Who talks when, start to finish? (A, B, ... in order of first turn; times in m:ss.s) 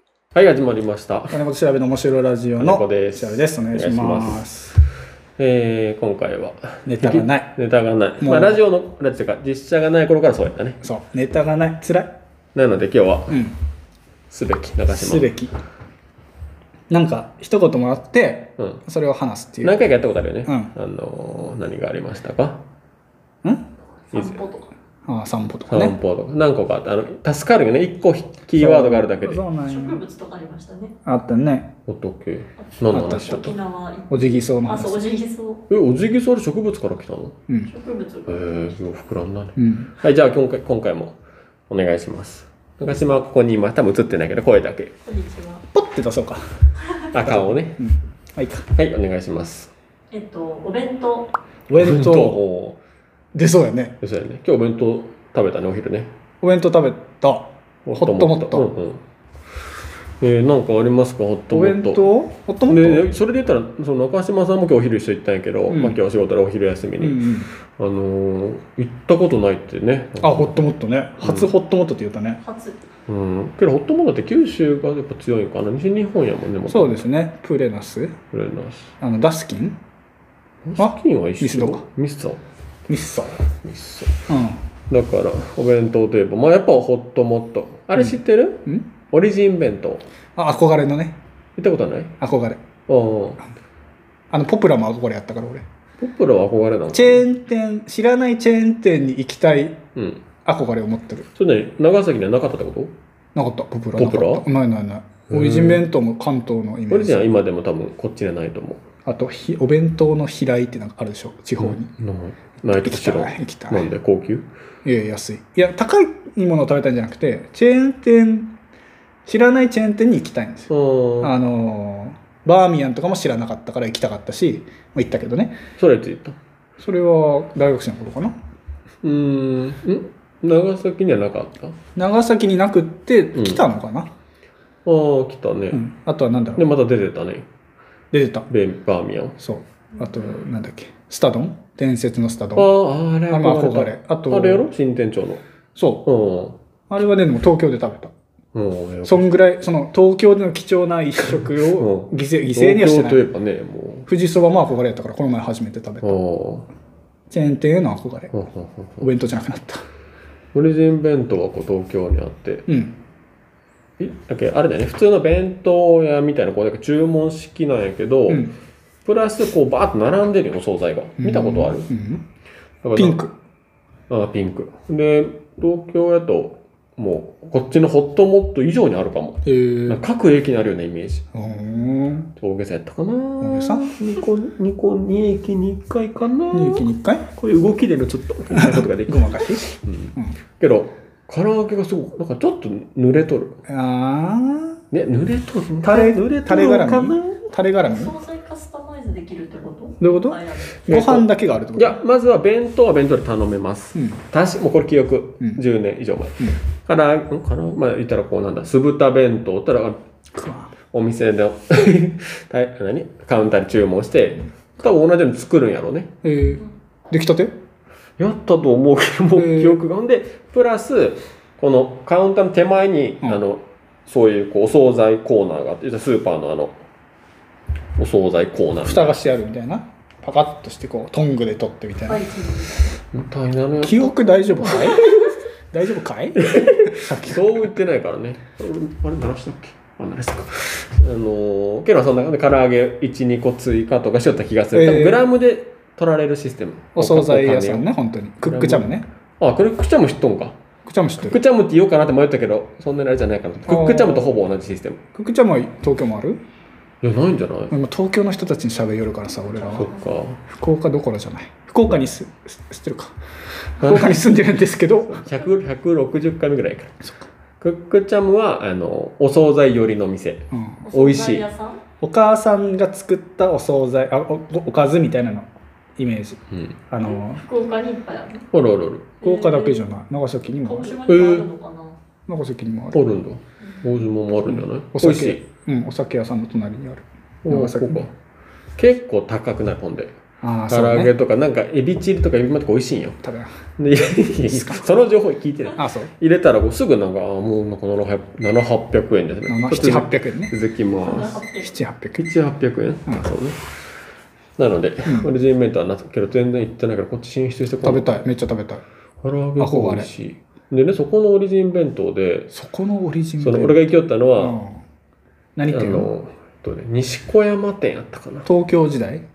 0:00.3-0:01.4 A
0:01.3-0:04.8 B
0:02.6-0:04.4 A
0:05.4-0:10.8 A
0:06.8-0:07.5 B
0:08.2-0:08.6 B
0:10.8-0:12.1 B
0:12.5-0:13.4 A
0:13.3-0:13.6 B
0:14.3-0:15.3 A
0:14.9-0:15.5 B
0:16.9-0:19.8 B
0:19.6-0:22.6 A
0:20.4-0:20.7 B
0:23.4-0:23.7 B
0:24.1-0:24.7 C
0:24.1-0:24.4 A
0:25.1-0:26.0 B
0:25.7-0:29.4 A
0:28.6-0:30.0 B
0:29.6-0:30.9 C
0:31.0-0:31.7 B
0:31.8-0:33.6 A
0:32.6-0:35.6 C
0:32.9-0:33.4 B
0:34.1-0:35.0 B
0:35.7-0:37.4 A
0:37.6-0:38.7 C
0:38.3-0:41.2 A
0:39.6-0:39.9 B
0:41.7-0:44.9 A
0:45.0-0:45.6 C
0:45.7-0:46.5 B
0:47.1-0:47.8 A
0:47.2-0:48.7 B
0:48.7-0:49.7 A
0:50.1-0:51.3 C
0:51.7-0:52.4 B
0:51.7-0:52.8 A
0:53.3-0:54.0 B
0:54.0-0:56.1 A
0:56.4-0:58.7 B
0:57.8-0:59.0 A
1:00.2-1:02.1 A
1:01.5-1:03.1 B
1:02.7-1:10.7 A
1:05.7-1:06.0 B
1:07.0-1:07.5 B
1:10.2-1:12.4 B
1:11.2-1:11.5 A
1:12.4-1:12.8 C
1:13.1-1:17.0 A
1:16.7-1:18.1 B
1:18.3-1:18.9 A
1:19.0-1:19.8 B
1:20.6-1:22.4 A
1:20.8-1:21.8 B
1:22.9-1:23.4 B
1:23.4-1:24.2 A
1:24.3-1:24.6 B
1:24.9-1:30.0 A
1:28.0-1:28.8 B
1:30.4-1:31.2 B
1:31.6-1:32.1 A
1:32.2-1:32.6 B
1:32.9-1:33.4 A
1:34.3-1:35.6 B
1:36.0-1:37.2 A
1:36.9-1:39.8 B
1:39.9-1:40.2 A
1:40.4-1:41.3 B
1:41.4-1:42.9 A
1:43.3-1:47.2 B
1:44.0-1:44.4 A
1:45.3-1:45.8 A
1:46.9-1:48.8 A
1:49.0-1:51.9 B
1:51.6-1:54.5 A
1:52.8-1:53.9 B
1:54.8-1:58.5 B
1:59.2-2:00.7 B
2:00.7-2:01.3 A
2:01.2-2:05.6 B
2:05.8-2:06.4 A
2:06.8-2:08.4 B
2:09.0-2:11.8 A
2:12.0-2:14.1 B
2:13.3-2:13.6 A
2:14.8-2:15.8 A
2:15.7-2:16.6 B
2:16.6-2:17.5 A
2:18.1-2:18.5 B
2:18.5-2:19.4 A
2:19.4-2:22.7 B
2:22.6-2:25.4 A
2:23.3-2:24.7 B
2:25.8-2:26.1 B
2:26.0-2:26.6 A
2:26.9-2:28.1 B
2:28.5-2:29.3 A
2:29.0-2:33.2 B
2:31.7-2:34.1 A
2:34.1-2:36.2 B
2:36.0-2:36.7 A
2:37.3-2:38.3 B
2:38.3-2:39.1 A
2:39.0-2:39.8 B
2:40.5-2:42.7 A
2:42.7-2:43.0 B
2:44.0-2:48.5 A
2:48.3-2:48.5 B
2:49.0-2:51.9 A
2:51.2-2:52.2 B
2:52.8-2:53.2 A
2:53.0-2:53.3 B
2:54.1-3:01.2 A
2:59.4-3:00.0 B
3:01.3-3:02.3 B
3:02.4-3:13.6 A
3:03.4-3:03.9 B
3:06.5-3:07.2 B
3:08.5-3:09.6 B
3:13.7-3:14.8 B
3:14.9-3:17.4 A
3:15.8-3:18.1 B
3:17.8-3:20.9 C
3:20.0-3:22.0 B
3:20.9-3:30.0 A
3:30.3-3:30.7 B
3:30.9-3:36.1 A
3:36.2-3:37.6 B
3:38.2-3:46.8 A
3:39.4-3:39.8 B
3:48.0-3:49.2 A
3:48.8-3:52.2 B
3:52.0-3:53.0 C
3:53.1-3:55.4 A
3:53.8-3:55.0 B
3:55.7-3:57.7 B
3:56.4-4:07.9 A
4:04.7-4:05.2 B
4:07.0-4:09.0 B
4:08.4-4:10.6 A
4:10.9-4:11.4 B
4:11.2-4:15.0 A
4:13.6-4:14.4 B
4:15.1-4:16.4 B
4:17.0-4:17.7 A
4:17.7-4:19.9 B
4:19.6-4:20.4 A
4:20.5-4:25.3 B
4:23.8-4:24.2 A
4:25.1-4:27.0 A
4:27.6-4:31.5 A
4:30.5-4:30.8 B
4:30.8-4:31.8 C
4:32.0-4:36.4 B
4:36.9-4:37.4 B
4:37.0-4:38.4 C
4:38.5-4:39.1 A
4:39.2-4:39.9 C
4:39.2-4:41.4 B
4:40.6-4:42.0 C
4:41.1-4:41.4 A
4:42.3-4:43.1 B
4:42.9-4:45.4 A
4:43.6-4:44.0 C
4:44.4-4:48.1 B
4:47.4-4:48.1 A
4:48.8-4:50.1 A
4:50.4-4:51.1 B
4:50.7-4:53.2 A
4:53.2-4:53.5 B
4:53.8-5:01.4 A
4:54.4-4:54.9 B
4:55.8-4:56.1 B
4:59.5-5:00.5 B
5:01.0-5:01.7 C
5:01.6-5:02.3 B
5:02.2-5:03.6 A
5:04.6-5:08.2 A
5:07.8-5:08.8 B
5:09.2-5:12.5 A
5:09.6-5:10.1 B
5:12.5-5:13.8 B
5:13.4-5:14.6 A
5:14.4-5:14.8 B
5:15.6-5:16.1 B
5:15.7-5:18.5 A
5:18.4-5:19.2 B